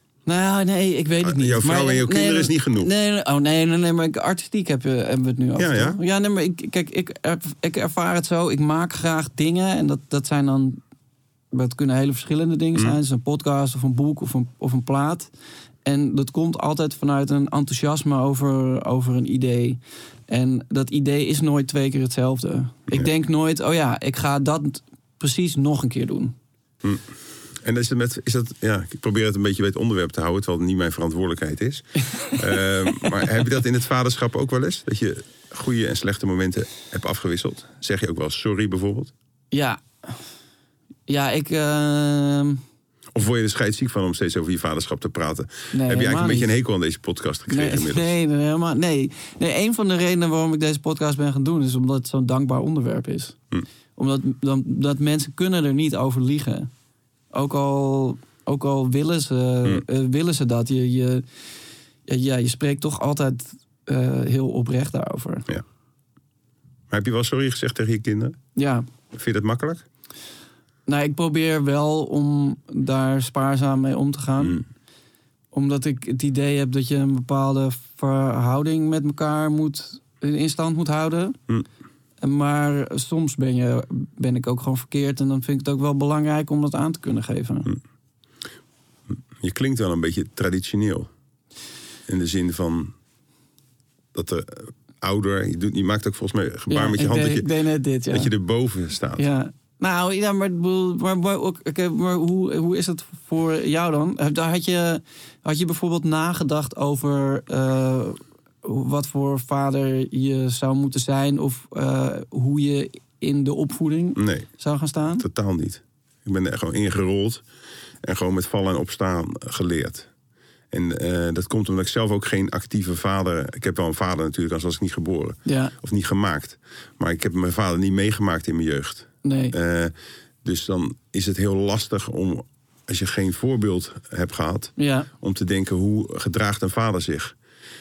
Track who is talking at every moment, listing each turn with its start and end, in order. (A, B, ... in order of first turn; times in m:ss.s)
0:00.2-0:10.8 A
0:01.2-0:02.9 B
0:05.6-0:06.0 B
0:11.5-0:15.3 A
0:15.8-0:26.3 A
0:27.6-0:39.1 B
0:39.5-0:40.2 A
0:41.1-0:42.6 A
0:43.1-0:48.2 B
0:45.7-0:46.5 A
0:47.5-0:53.4 A
0:54.0-0:56.7 A
0:57.3-1:01.2 A
1:02.1-1:05.5 A
1:06.9-1:08.4 B
1:08.6-1:08.8 A
1:09.1-1:09.8 B
1:10.9-1:14.6 A
1:15.5-1:21.4 A
1:22.2-1:27.7 A
1:29.4-1:31.1 B
1:32.1-1:32.9 B
1:34.1-1:37.5 B
1:36.7-1:38.3 A
1:38.1-1:39.2 B
1:39.2-1:55.2 A
1:54.2-1:54.5 B
1:55.2-1:57.4 B
1:58.0-2:00.1 B
2:00.7-2:09.9 B
2:05.4-2:05.7 A
2:09.2-2:09.6 A
2:10.4-2:17.3 B
2:14.8-2:15.1 A